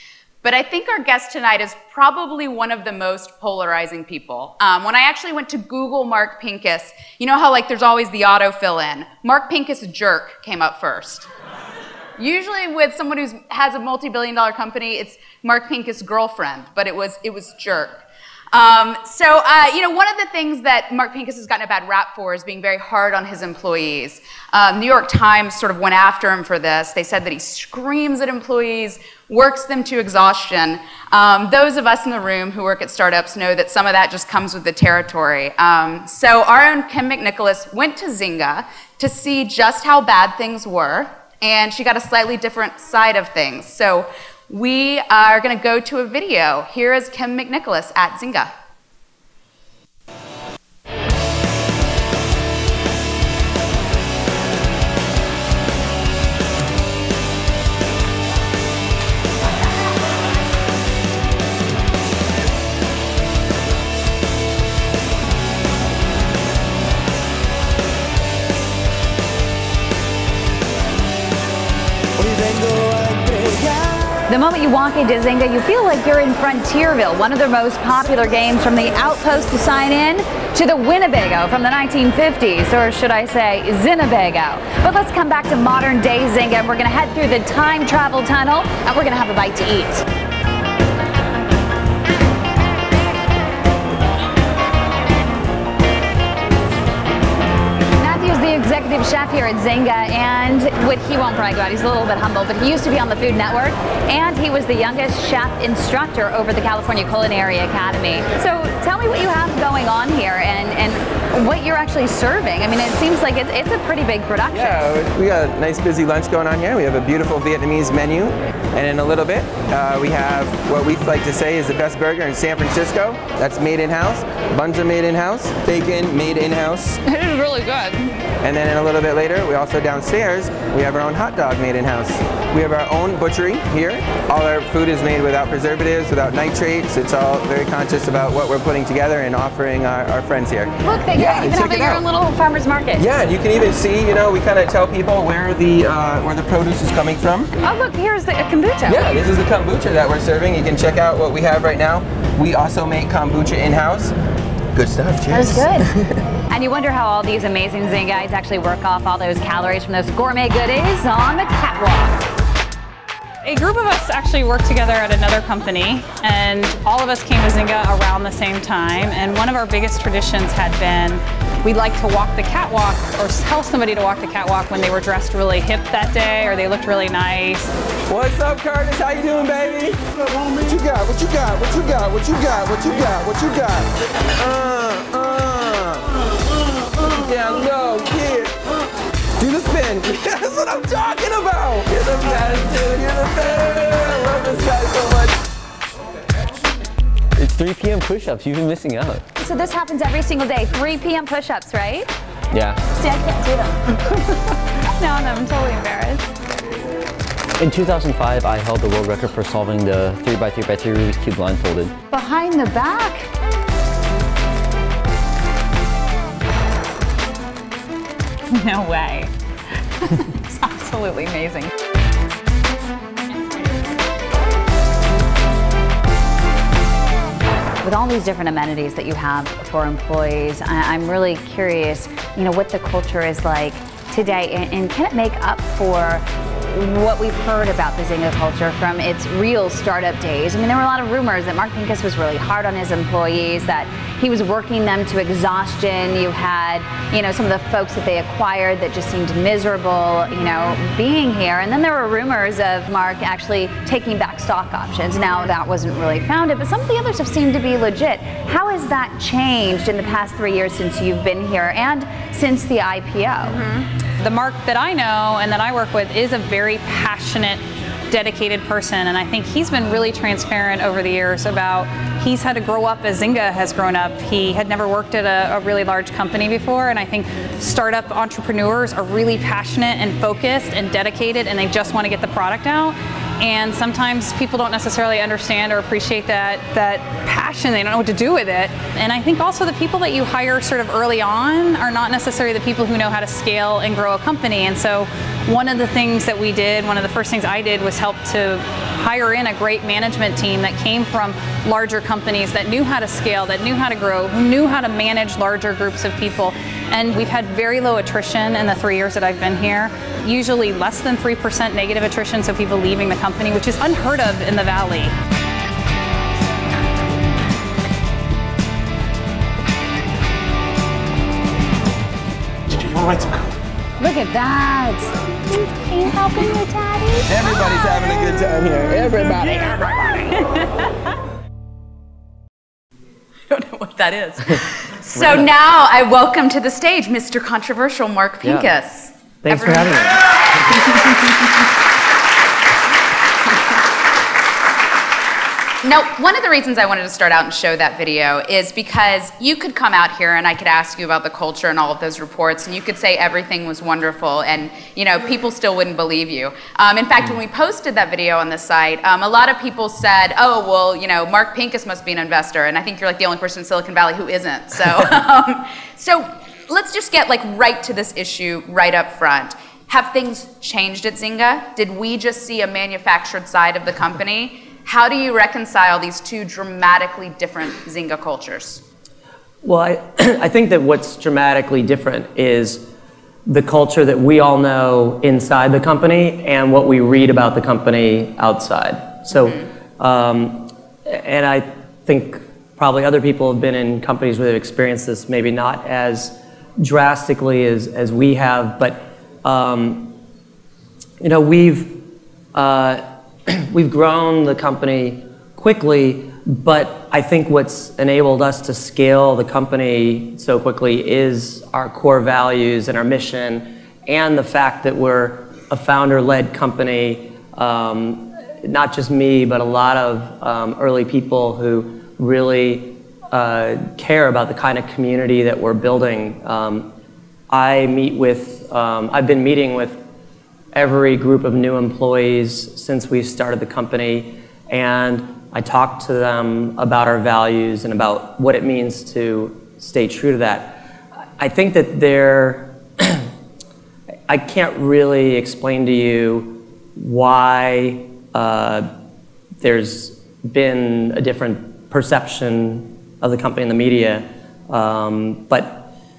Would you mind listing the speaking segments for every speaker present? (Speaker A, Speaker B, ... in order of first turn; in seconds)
Speaker A: 0.4-11.3, 12.2-48.5, 218.5-219.3, 220.1-221.7, 333.5-340.1, 345.8-378.8
Speaker B: 73.0-73.6, 197.4-199.2, 202.5-202.8, 207.6-211.9
Speaker C: 74.3-90.1, 97.9-114.9, 127.1-127.9, 140.8-143.0, 147.6-149.2, 155.3-155.9, 156.5-162.2, 199.4-202.1, 202.9-206.3, 212.1-213.3, 227.8-263.7, 324.0-327.4
Speaker D: 114.5-127.0, 128.4-142.0, 143.0-147.5, 148.8-154.1, 154.7-155.8, 178.1-186.1, 187.0-188.6, 189.4-195.4, 322.8-323.3, 327.2-329.9
Speaker E: 163.4-177.7, 264.2-315.1
Speaker F: 335.1-335.5, 338.4-338.7, 339.4-340.9, 379.6-382.8, 383.4-400.1, 401.2-402.0, 402.5-426.9, 427.5-430.0, 430.7-440.8, 441.4-443.3, 444.3-448.9, 449.6-455.9